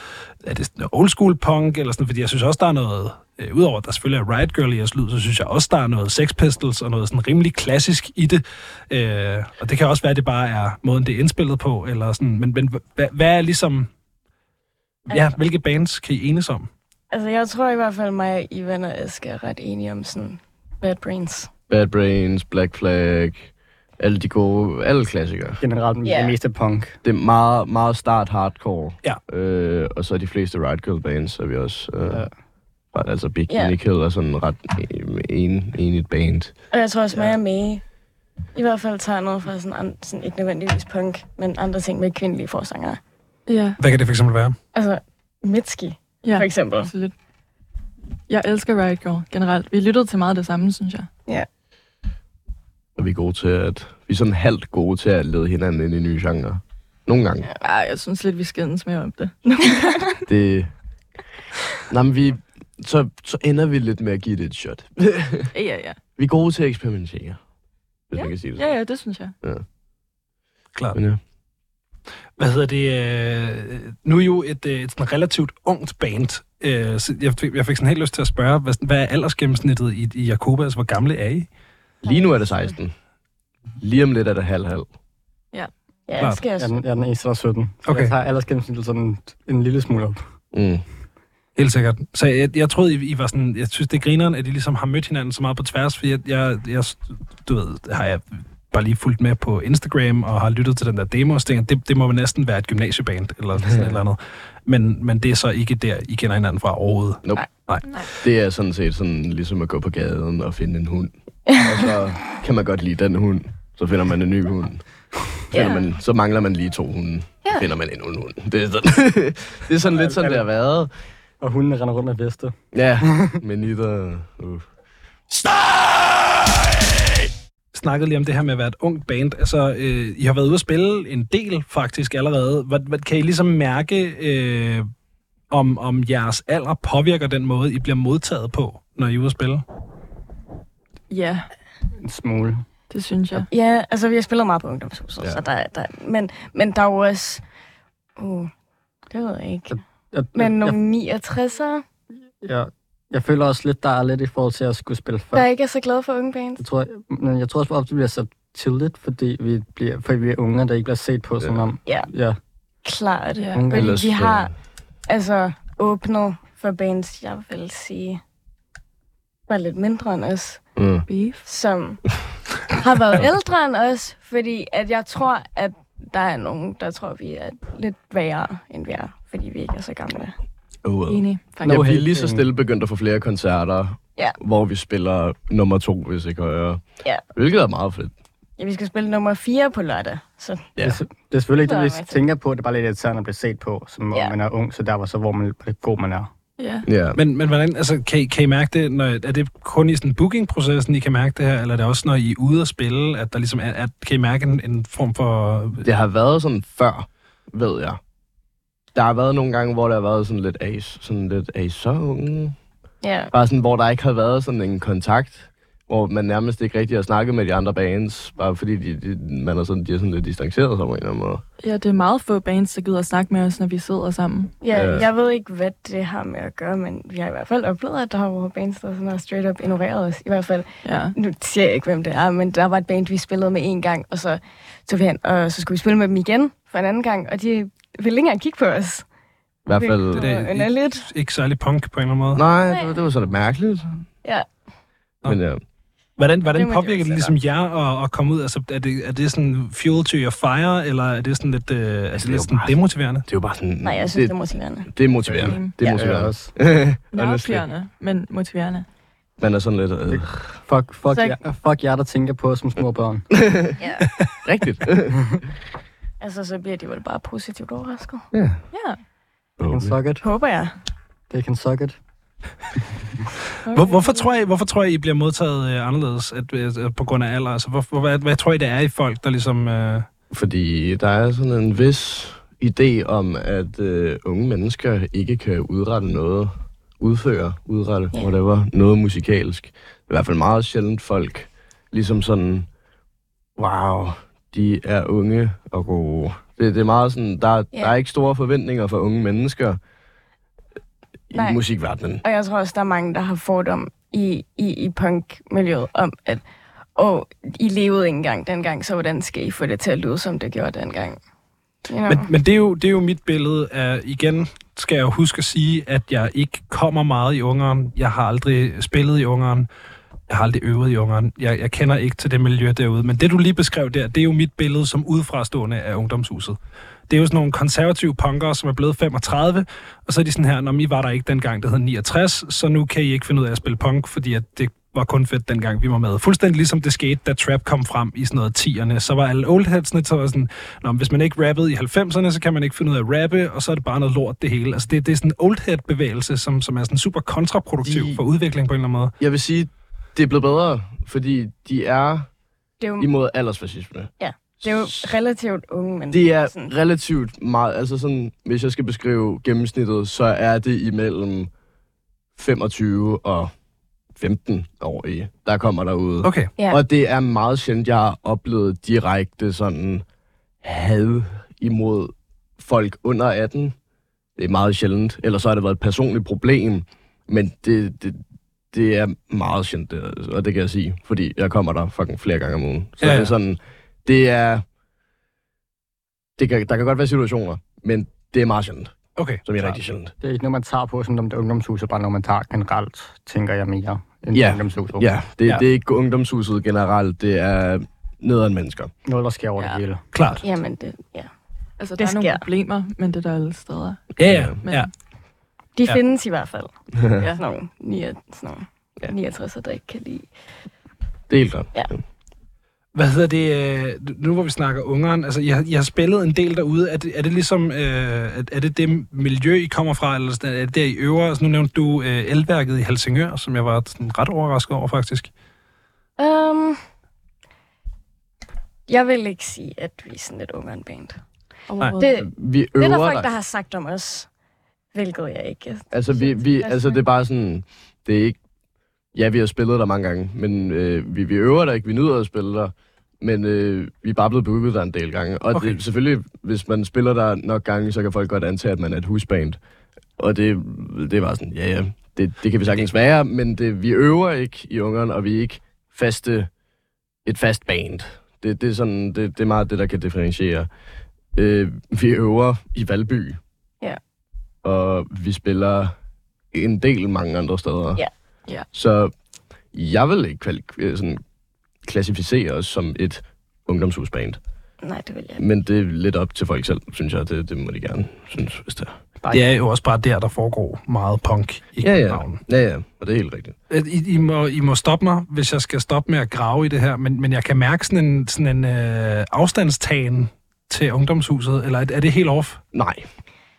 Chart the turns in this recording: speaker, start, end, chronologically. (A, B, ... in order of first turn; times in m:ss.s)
0:00.4-0:13.9 A
0:15.1-0:16.7 A
0:15.1-0:15.4 B
0:17.1-0:21.5 B
0:21.7-0:25.6 C
0:25.6-0:27.0 D
0:26.0-0:26.4 B
0:27.0-0:32.3 C
0:32.9-0:36.6 C
0:33.5-0:33.8 B
0:36.7-0:37.8 B
0:38.6-0:43.0 B
0:43.5-0:43.8 E
0:43.8-0:44.6 A
0:44.7-0:46.9 B
0:46.2-0:47.1 E
0:48.3-0:51.1 E
0:53.0-0:57.5 C
0:57.6-1:00.2 E
1:00.3-1:00.7 C
1:01.9-1:05.5 C
1:05.5-1:06.0 E
1:06.2-1:07.4 C
1:08.1-1:08.8 C
1:08.6-1:09.4 E
1:11.0-1:11.2 C
1:12.4-1:21.5 A
1:22.0-1:22.7 B
1:22.0-1:22.9 C
1:23.8-1:24.9 C
1:26.1-1:26.8 B
1:26.6-1:30.2 D
1:27.9-1:28.1 A
1:30.5-1:30.8 C
1:31.6-1:48.1 A
1:43.6-1:44.0 C
1:48.2-1:54.8 C
1:51.5-1:51.9 B
1:55.5-2:00.9 C
1:55.5-1:55.8 B
1:59.9-2:00.4 D
2:01.4-2:03.4 D
2:02.7-2:04.7 C
2:05.3-2:07.3 C
2:07.7-2:14.9 A
2:15.5-2:19.6 A
2:21.1-2:21.5 E
2:22.0-2:22.6 D
2:22.9-2:23.5 E
2:23.5-2:27.4 B
2:28.2-2:28.5 B
2:29.1-2:29.8 B
2:29.7-2:30.8 D
2:30.3-2:31.8 B
2:32.4-2:35.4 D
2:35.3-2:36.6 B
2:36.6-2:42.4 D
2:42.8-2:44.5 B
2:43.4-2:43.7 E
2:43.5-2:44.0 D
2:43.7-2:44.5 C
2:45.1-2:48.2 B
2:49.5-2:50.6 B
2:50.8-2:51.1 C
2:51.1-2:51.5 E
2:51.5-2:52.1 B
2:52.7-3:00.4 B
3:00.8-3:06.8 C
3:01.1-3:02.0 E
3:01.6-3:02.5 D
3:07.3-3:08.1 C
3:08.6-3:10.7 B
3:10.8-3:16.3 D
3:11.6-3:12.2 B
3:16.6-3:16.9 E
3:16.9-3:17.2 C
3:17.2-3:25.8 A
3:25.8-3:28.0 C
3:29.0-3:32.6 C
3:33.0-3:33.3 B
3:33.3-3:41.4 C
3:41.6-3:44.6 E
3:44.6-3:59.0 B
3:44.7-3:45.1 C
3:50.8-3:51.2 E
3:59.7-4:00.3 C
3:59.7-4:01.1 B
4:00.1-4:02.4 A
4:02.4-4:04.1 C
4:02.7-4:03.0 B
4:05.2-4:05.6 C
4:06.2-4:13.2 A
4:06.5-4:07.3 B
4:12.2-4:12.8 C
4:13.3-4:14.4 C
4:13.8-4:14.9 B
4:14.9-4:17.7 C
4:15.3-4:16.5 D
4:15.4-4:15.8 E
4:17.1-4:18.9 E
4:19.4-4:20.6 C
4:20.1-4:23.4 D
4:21.1-4:21.4 B
4:23.4-4:23.7 C
4:23.8-4:24.1 B
4:24.4-4:25.4 C
4:26.2-4:28.3 B
4:28.3-4:28.6 C
4:28.7-4:29.0 E
4:29.6-4:30.0 C
4:29.7-4:30.2 D
4:30.2-4:30.8 B
4:31.3-4:32.0 D
4:33.6-4:34.3 E
4:33.7-4:40.1 A
4:40.3-4:52.7 C
4:53.6-4:59.8 C
5:01.3-5:02.2 C
5:01.3-5:01.6 B
5:02.2-5:06.4 B
5:07.0-5:11.2 B
5:11.9-5:12.3 B
5:12.1-5:19.7 A
5:20.3-5:26.6 A
5:27.1-5:49.1 A
5:47.8-5:48.2 C
5:49.2-5:52.3 C
5:52.8-5:53.1 B
5:53.0-5:54.1 C
5:54.2-5:56.7 B
5:54.6-5:55.1 C
5:56.1-6:01.5 C
6:02.4-6:03.5 C
6:04.2-6:10.0 C
6:06.2-6:06.5 A
6:10.6-6:13.8 C
6:14.4-6:24.6 C
6:23.0-6:23.3 A
6:26.4-6:28.9 C
6:29.2-6:29.8 A
6:29.5-6:30.1 C
6:30.2-6:35.1 D
6:34.3-6:38.9 C
6:39.0-6:40.0 D
6:40.1-6:40.4 A
6:40.4-6:41.3 B
6:41.8-6:44.1 E
6:42.0-6:42.5 B
6:44.2-6:44.9 A
6:44.2-6:44.6 C
6:44.6-6:44.9 E
6:45.8-6:46.7 B
6:47.3-6:50.3 B
6:51.3-6:51.9 C
6:52.9-7:05.3 A
7:06.2-7:06.8 B
7:08.9-7:11.2 B
7:11.7-7:12.2 E
7:12.0-7:14.3 B
7:12.2-7:13.3 C
7:14.9-7:17.0 B
7:15.9-7:18.4 C
7:19.1-7:29.6 C
7:25.5-7:25.8 A
7:30.2-7:36.5 C
7:37.2-7:40.7 C
7:41.3-7:43.4 C
7:44.6-7:45.9 C
7:46.5-7:48.0 C
7:48.7-7:49.1 C
7:49.7-7:51.2 C
7:51.8-7:54.4 C
7:54.8-7:55.4 B
7:55.4-7:59.0 C
7:59.3-8:02.4 A
8:01.8-8:03.6 C
8:03.7-8:12.6 A
8:12.7-8:13.1 C